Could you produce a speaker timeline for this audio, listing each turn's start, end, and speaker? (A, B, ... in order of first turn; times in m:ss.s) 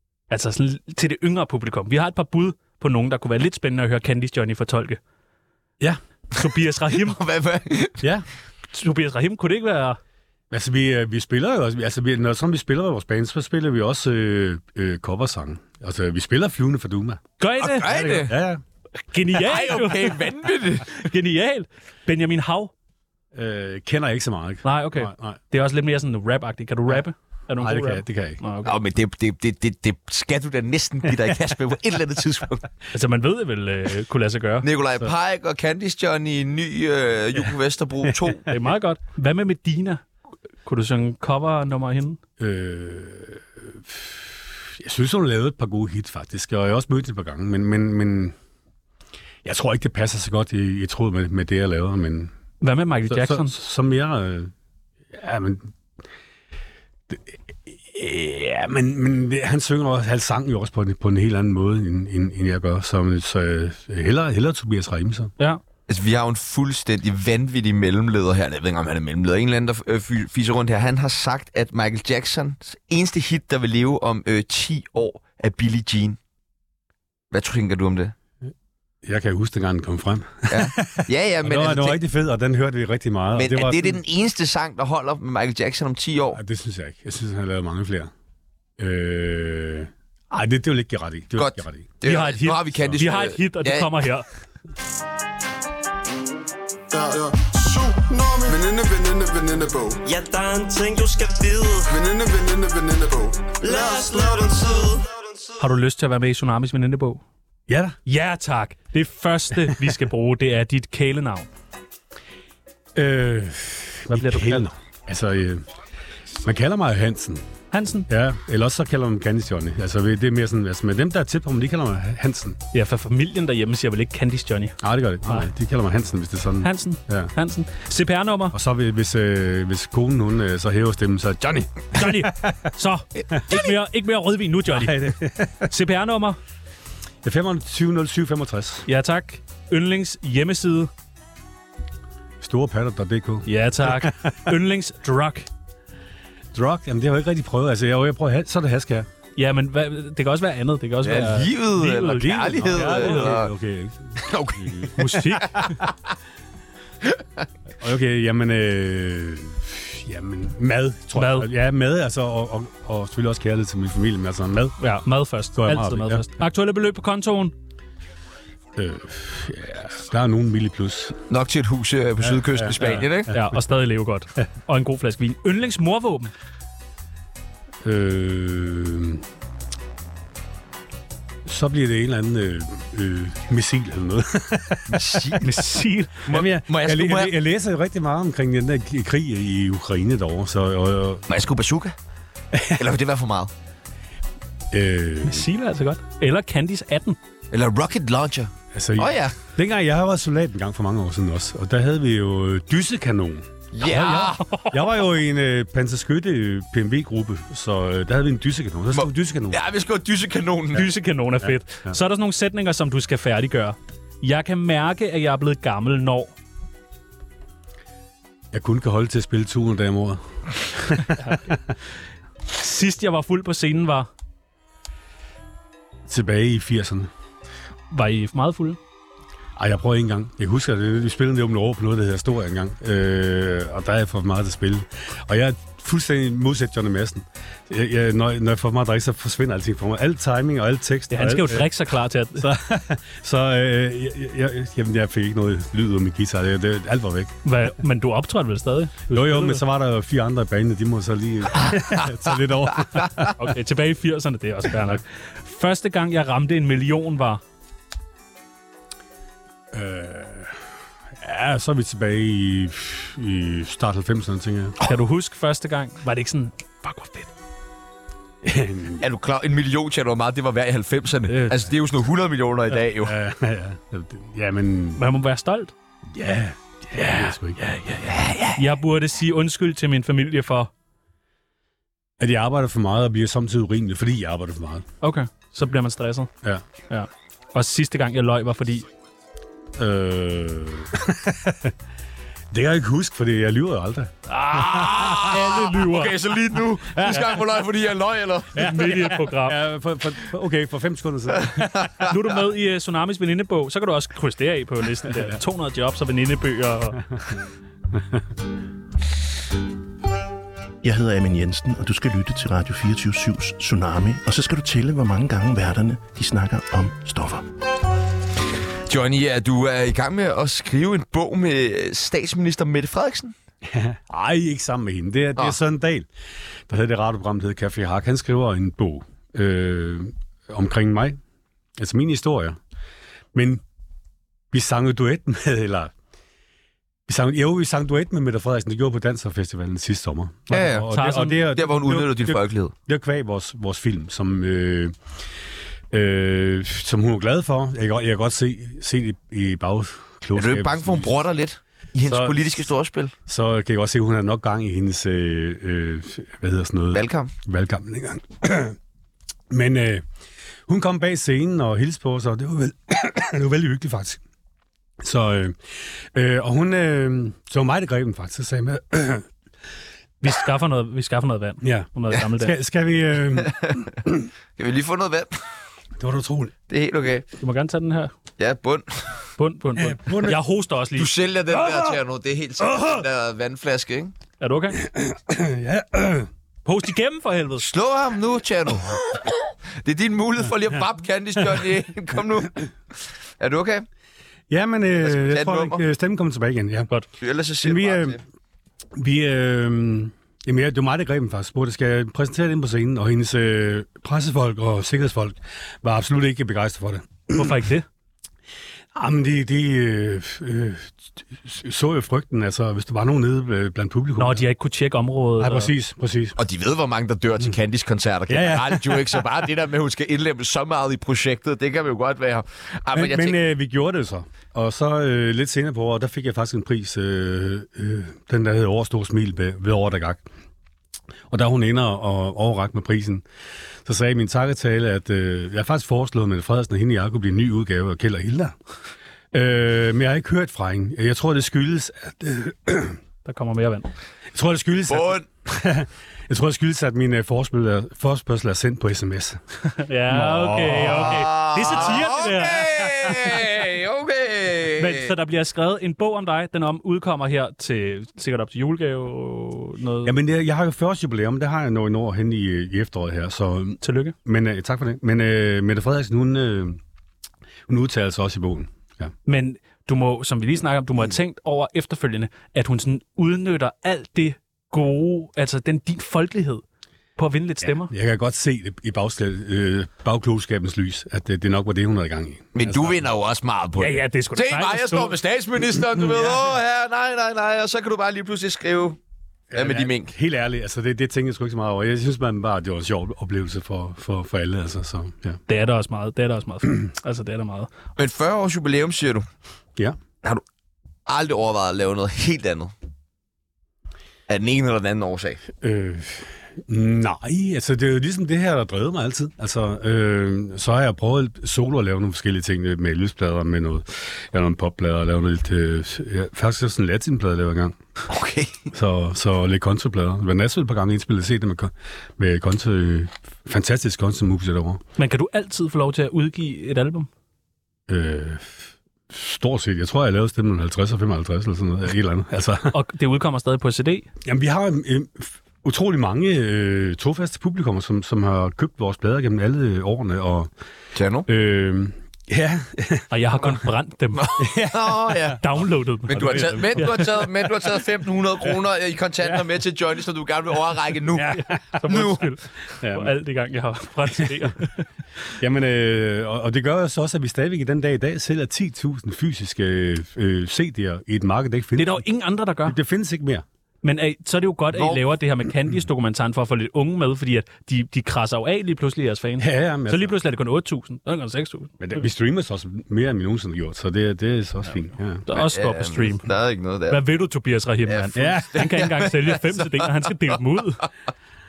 0:00.3-0:05.0 A
0:06.4-0:07.2 A
0:07.1-0:08.1 B
0:08.0-0:08.3 C
0:08.7-0:10.0 A
0:10.5-0:17.2 C
0:17.4-0:17.9 A
0:17.6-0:18.4 B
0:17.8-0:18.6 C
0:19.1-0:20.2 A
0:19.3-0:21.0 B
0:20.9-0:22.7 A
0:23.3-0:25.4 C
0:24.6-0:28.8 A
0:27.6-0:28.4 C
0:28.6-0:32.7 B
0:32.9-0:34.7 A
0:34.6-0:38.5 B
0:38.5-0:40.0 A
0:40.6-0:42.2 A
0:42.4-0:48.4 C
0:49.4-0:52.3 C
0:52.6-0:53.6 A
0:53.1-0:54.5 C
0:55.1-0:55.7 C
0:57.1-1:05.3 C
1:05.9-1:16.2 B
1:17.3-1:18.1 B
1:19.0-1:24.0 C
1:20.5-1:22.0 B
1:23.4-1:26.4 B
1:26.3-1:28.1 C
1:28.8-1:31.9 C
1:31.4-1:34.1 B
1:32.0-1:34.3 A
1:32.8-1:33.0 C
1:36.9-1:40.0 D
1:40.0-1:41.9 E
1:41.9-1:45.0 D
1:43.6-1:45.0 E
1:45.6-1:47.2 A
1:47.7-1:48.0 C
1:48.1-1:51.5 A
1:53.0-1:55.7 C
1:54.1-1:54.7 A
1:56.4-1:57.4 C
1:57.7-1:58.1 A
1:58.1-2:02.6 C
2:02.7-2:05.5 A
2:04.8-2:07.3 C
2:06.6-2:08.6 A
2:08.5-2:12.6 C
2:11.9-2:16.4 A
2:14.7-2:15.7 C
2:17.2-2:18.9 C
2:18.9-2:20.9 A
2:22.4-2:24.5 C
2:23.5-2:25.5 A
2:26.5-2:29.1 C
2:29.4-2:33.4 A
2:31.0-2:33.5 B
2:32.1-2:35.1 C
2:34.2-2:35.9 B
2:35.0-2:35.8 A
2:37.8-2:44.8 C
2:41.2-2:41.5 A
2:44.8-2:47.5 A
2:45.5-2:46.3 C
2:48.8-2:51.2 C
2:51.3-2:53.3 B
2:52.2-2:53.6 C
2:53.3-2:56.3 A
2:57.8-2:59.2 C
3:01.4-3:05.6 C
3:04.9-3:05.4 B
3:05.4-3:06.2 A
3:06.2-3:07.3 B
3:06.3-3:11.3 C
3:11.3-3:12.0 B
3:12.5-3:12.9 C
3:12.7-3:13.5 B
3:14.7-3:15.5 C
3:15.2-3:17.2 A
3:17.5-3:19.4 B
3:18.7-3:29.6 C
3:23.7-3:24.5 B
3:24.4-3:24.7 A
3:28.9-3:30.9 B
3:30.7-3:36.4 A
3:31.4-3:32.0 C
3:38.5-3:41.6 C
3:42.5-3:44.1 A
3:46.1-3:47.1 C
3:47.9-3:48.8 A
3:49.6-4:01.7 C
4:01.1-4:02.5 A
4:02.4-4:07.4 C
4:07.4-4:09.6 A
4:09.1-4:13.4 C
4:13.4-4:17.4 A
4:19.7-4:20.6 C
4:21.2-4:24.8 C
4:24.8-4:27.3 A
4:28.4-4:29.0 C
4:29.0-4:33.2 B
4:31.3-4:31.6 A
4:33.0-4:35.0 C
4:35.0-4:35.7 A
4:36.1-4:37.6 C
4:36.9-4:40.7 A
4:38.1-4:38.6 B
4:42.2-4:44.9 C
4:45.0-4:46.3 A
4:46.9-4:48.8 A
4:49.8-4:51.7 C
4:52.5-4:55.5 C
4:54.3-4:56.2 A
4:54.6-4:58.8 B
4:56.9-4:57.4 C
4:58.5-5:02.0 C
4:58.6-4:59.6 A
5:01.4-5:02.1 B
5:02.0-5:07.0 A
5:10.8-5:17.4 F
5:18.9-5:23.3 B
5:23.6-5:26.1 C
5:26.7-5:31.2 C
5:31.8-5:32.6 C
5:33.3-5:33.6 C
5:34.5-5:35.9 C
5:37.1-5:45.0 C
5:40.5-5:40.9 B
5:40.8-5:41.4 A
5:41.5-5:42.7 B
5:45.9-5:51.1 C
5:50.4-5:53.1 B
5:52.0-5:52.6 C
5:53.3-5:58.8 C
5:56.9-5:57.3 B
5:59.5-6:00.0 C
6:00.7-6:04.2 C
6:05.0-6:09.3 C
6:10.2-6:12.5 A
6:11.6-6:14.3 C
6:14.6-6:15.4 B
6:16.0-6:16.5 C
6:16.7-6:17.3 B
6:17.4-6:18.1 A
6:18.4-6:19.2 B
6:19.4-6:21.1 A
6:19.8-6:20.4 C
6:21.0-6:24.2 B
6:24.4-6:24.8 A
6:24.8-6:26.3 C
6:26.6-6:27.6 A
6:27.6-6:33.8 B
6:34.5-6:36.9 C
6:35.0-6:35.8 B
6:37.2-6:38.2 B
6:37.6-6:38.2 C
6:39.0-6:47.6 C
6:47.3-6:47.9 A
6:48.9-6:54.5 C
6:54.2-6:55.7 A
6:55.4-6:56.4 C
6:56.4-7:03.4 B
6:58.3-6:59.3 C
7:02.9-7:10.3 C
7:11.3-7:13.2 C
7:13.8-7:18.6 C
7:19.3-7:23.0 C
7:23.2-7:23.9 A
7:24.3-7:29.4 C
7:24.9-7:25.3 B
7:29.6-7:33.4 A
7:30.1-7:31.8 C
7:30.9-7:35.1 B
7:34.8-7:40.2 A
7:40.0-7:46.8 C
7:43.8-7:44.2 A
7:47.7-7:49.1 C
7:49.3-7:56.6 A
7:57.2-7:57.9 A
7:57.6-8:03.0 C
8:02.6-8:09.0 B
8:03.8-8:05.2 A
8:06.0-8:06.5 C
8:09.5-8:15.4 C
8:09.5-8:10.1 B
8:15.5-8:17.7 A
8:18.0-8:19.3 B
8:21.1-8:22.7 B
8:24.3-8:25.4 B
8:25.6-8:37.8 C
8:38.1-8:38.6 B
8:38.7-8:44.8 C
8:45.0-8:47.1 A
8:47.9-8:48.6 C
8:49.1-8:52.7 C
8:52.7-8:54.1 A
8:54.2-9:00.5 C
9:01.0-9:01.3 B
9:01.3-9:03.6 C
9:03.1-9:04.3 A
9:04.2-9:05.5 B
9:04.4-9:05.4 C
9:05.4-9:07.0 A
9:06.1-9:12.2 B
9:06.1-9:07.1 C
9:11.2-9:11.8 C
9:11.3-9:14.8 A
9:12.8-9:13.1 C
9:14.2-9:14.5 C
9:15.4-9:22.0 C
9:21.8-9:22.8 A
9:22.6-9:23.4 C
9:23.8-9:31.8 A
9:24.7-9:25.0 B
9:29.4-9:30.2 C
9:31.8-9:35.2 C
9:35.3-9:36.3 A
9:35.3-9:37.0 B
9:36.9-9:40.9 A
9:37.9-9:40.1 B
9:38.2-9:38.7 C